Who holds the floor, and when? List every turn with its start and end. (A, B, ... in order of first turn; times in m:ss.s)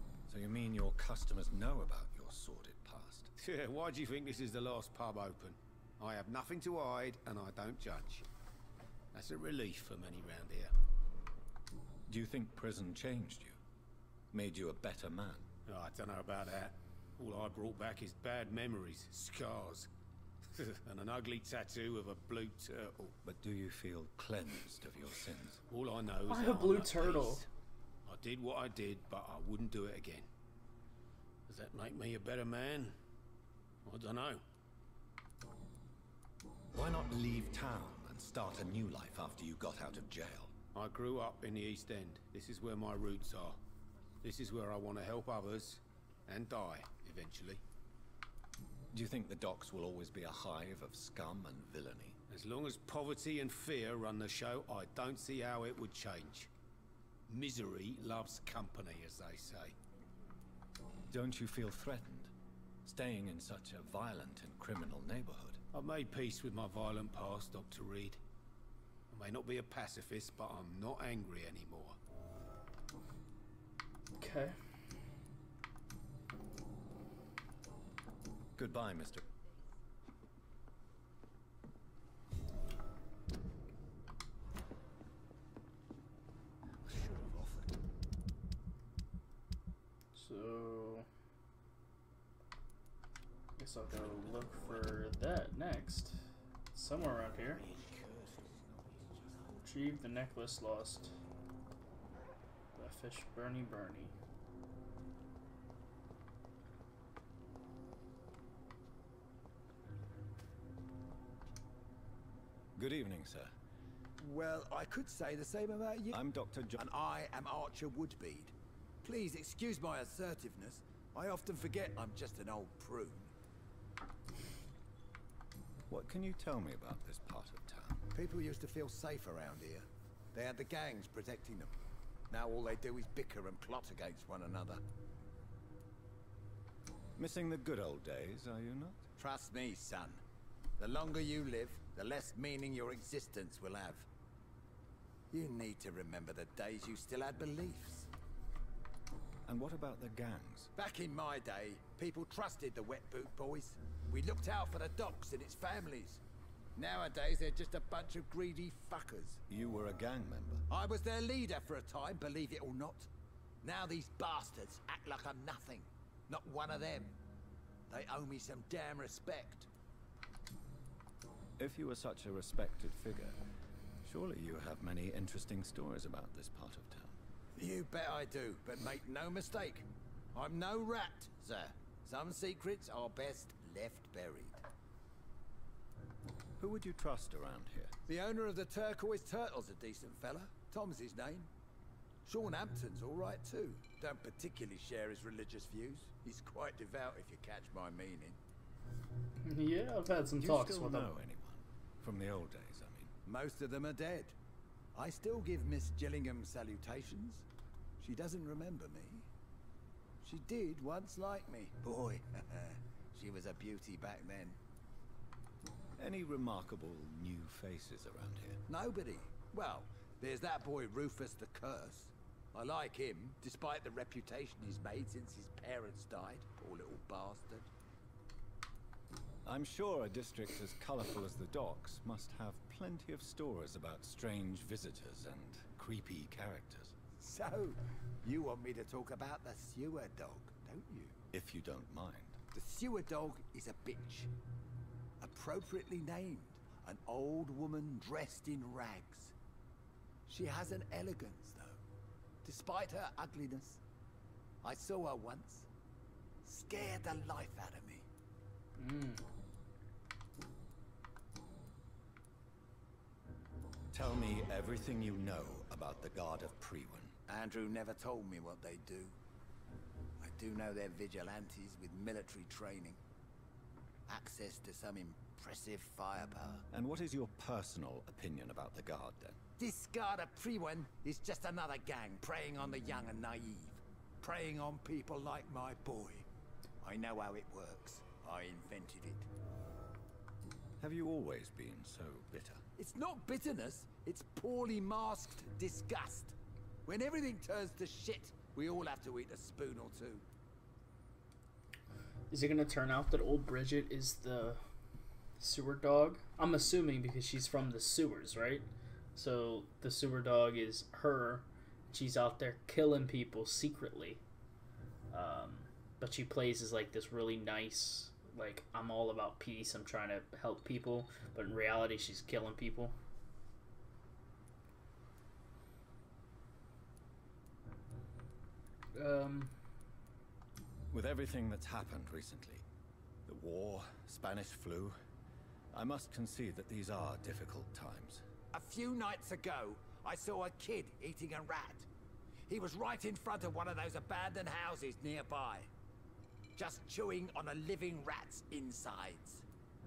0:00.3-0:03.3 A
0:03.4-0:08.2 B
0:09.1-0:10.7 B
0:12.1-0:13.6 A
0:14.3-0:15.5 A
0:15.6-0:19.9 B
0:20.5-0:23.2 B
0:23.2-0:25.6 A
0:25.7-0:27.5 B
0:26.3-0:27.4 C
0:28.0-0:30.3 B
0:31.5-0:33.0 B
0:33.8-0:34.4 B
0:36.7-0:40.5 A
0:40.7-0:43.6 B
0:44.2-0:47.6 B
0:48.9-0:52.2 A
0:52.3-0:56.5 B
0:57.3-0:59.8 B
1:01.1-1:02.3 A
1:02.8-1:05.6 A
1:05.7-1:08.2 B
1:09.1-1:12.0 B
1:14.2-1:14.6 C
1:18.6-1:19.3 A
1:26.9-1:27.5 D
1:27.1-1:27.6 A
1:30.1-1:31.1 C
1:33.6-1:37.6 C
1:37.6-1:39.4 D
1:39.6-1:41.1 C
1:42.7-1:44.1 C
1:52.8-1:53.5 A
1:54.2-1:56.2 D
1:56.1-1:56.8 A
1:56.7-2:03.3 D
2:05.9-2:08.0 A
2:08.1-2:11.7 D
2:12.3-2:14.8 D
2:17.2-2:19.0 A
2:19.2-2:20.2 D
2:20.8-2:24.1 D
2:25.3-2:28.1 D
2:29.4-2:30.7 A
2:30.8-2:36.2 D
2:36.8-2:39.4 D
2:39.5-2:40.6 A
2:40.7-2:43.1 D
2:43.6-2:47.1 D
2:47.9-2:49.7 D
2:51.6-2:53.4 A
2:54.0-2:57.2 A
2:57.5-3:04.6 D
3:06.6-3:07.9 A
3:08.1-3:11.5 D
3:12.2-3:18.4 D
3:19.4-3:21.2 C
3:20.4-3:23.1 A
3:23.2-3:24.3 D
3:24.9-3:27.4 D
3:28.0-3:29.3 D
3:30.2-3:34.6 D
3:36.0-3:38.6 A
3:38.7-3:47.7 D
3:49.4-3:57.0 A
3:57.2-4:01.2 D
4:01.3-4:02.4 A
4:02.5-4:04.3 D
4:05.2-4:09.3 D
4:10.3-4:11.8 D
4:12.4-4:13.8 D
4:14.6-4:15.7 D
4:16.4-4:18.1 D
4:18.8-4:19.2 C
4:23.9-4:27.2 A
4:27.3-4:29.2 D
4:30.2-4:33.0 D
4:34.1-4:36.6 D
4:36.7-4:39.4 A
4:39.6-4:46.3 D
4:46.8-4:49.3 D
4:50.8-4:52.6 A
4:52.8-4:56.3 D
4:56.8-5:00.2 D
5:02.3-5:04.6 C
5:05.4-5:14.2 C
5:15.1-5:23.0 C
5:28.9-5:29.5 C
5:30.9-5:32.6 A
5:33.2-5:35.0 A
5:35.7-5:38.2 A
5:38.5-5:41.9 D
5:42.5-5:45.7 D
5:46.6-5:49.4 D